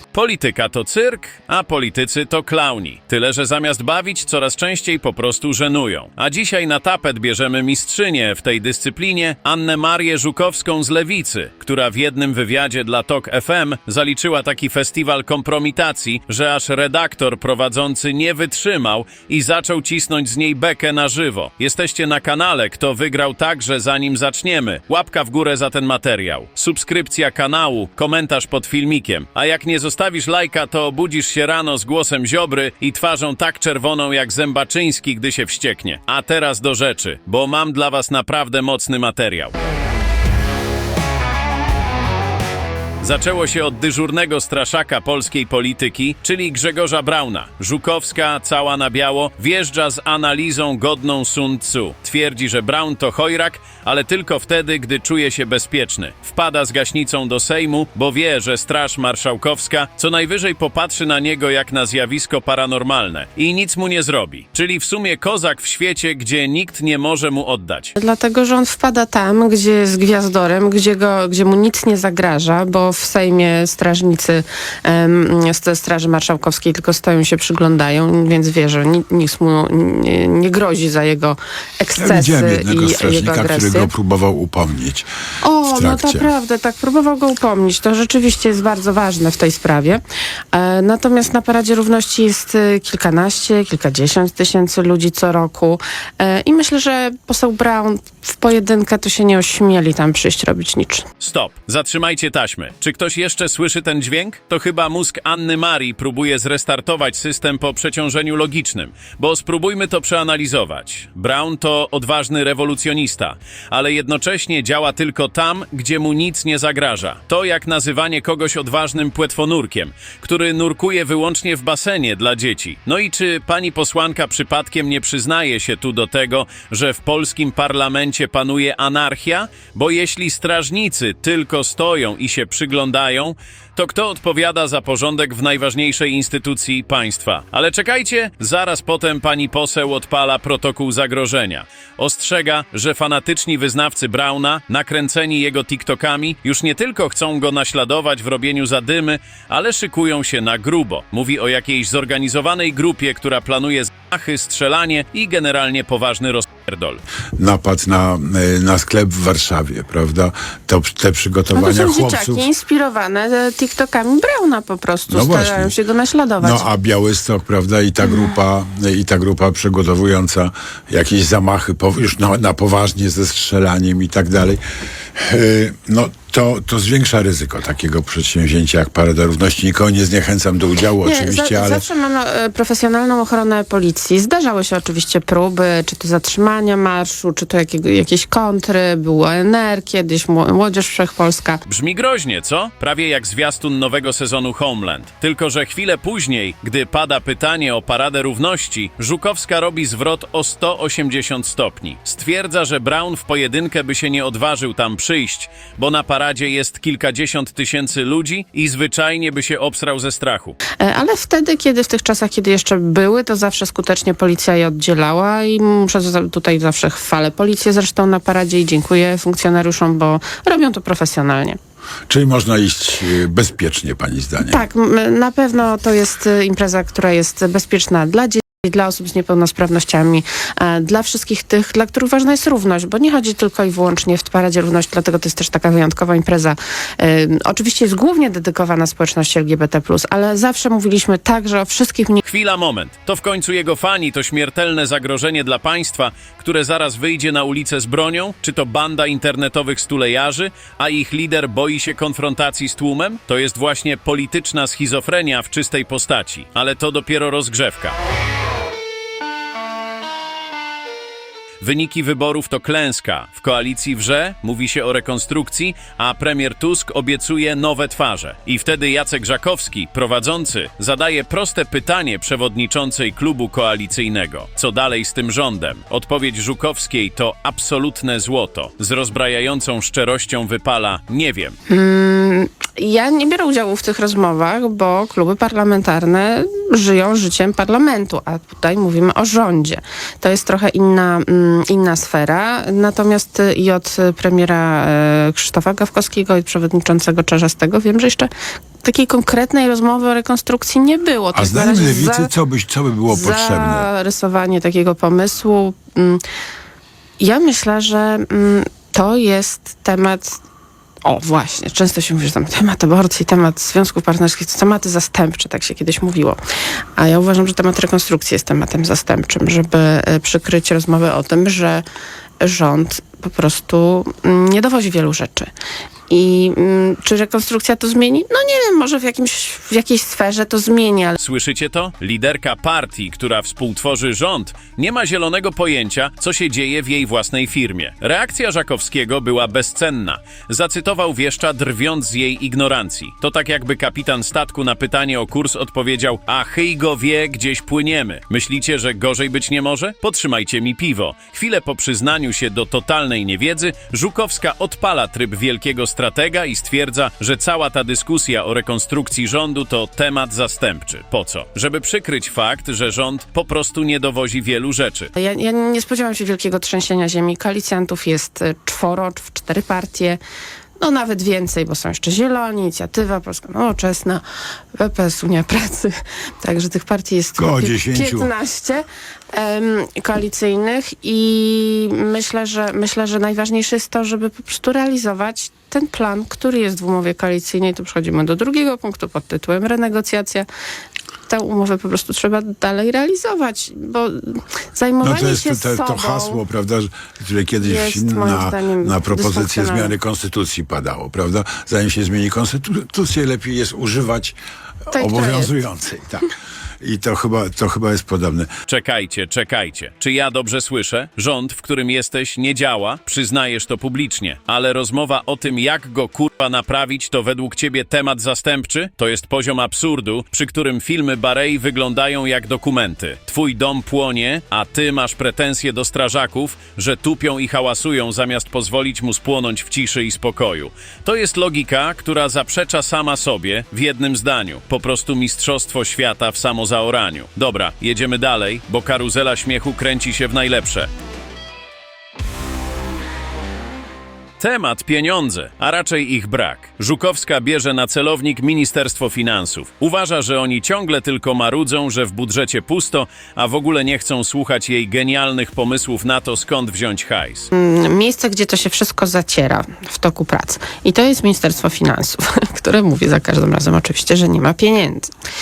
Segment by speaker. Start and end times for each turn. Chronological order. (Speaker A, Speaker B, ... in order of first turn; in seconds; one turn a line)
Speaker A: 0.1-39.6
Speaker A: 43.0-67.9
Speaker B: 68.0-83.9
Speaker C: 82.0-85.1
Speaker B: 85.4-90.0
Speaker C: 85.7-86.3
Speaker B: 90.5-101.1
Speaker A: 101.2-157.0
Speaker C: 157.4-162.4
Speaker B: 161.5-166.7
Speaker C: 165.1-165.7
Speaker C: 166.4-174.6
Speaker C: 175.2-181.8
Speaker B: 181.0-191.6
Speaker A: 191.7-210.6
Speaker B: 210.8-221.6
Speaker C: 222.1-224.6
Speaker B: 224.4-242.2
Speaker A: 242.2-258.0
Speaker A: 261.6-281.6
Speaker B: 281.7-298.3
Speaker B: 298.8-302.3
Speaker C: 301.3-303.9
Speaker B: 303.1-306.2
Speaker B: 307.2-310.4
Speaker B: 311.0-316.4
Speaker B: 317.0-321.8
Speaker B: 322.4-325.5
Speaker B: 326.1-331.2
Speaker A: 331.2-365.1
Speaker B: 365.2-370.2
Speaker B: 370.8-374.2
Speaker B: 374.8-390.5
Speaker C: 377.4-378.3
Speaker B: 391.3-396.4
Speaker C: 395.0-404.4
Speaker B: 397.6-399.9
Speaker B: 404.9-405.5
Speaker C: 404.9-406.3
Speaker C: 406.8-408.5
Speaker A: 408.7-440.9
Speaker A: 444.4-457.5
Speaker B: 457.5-465.1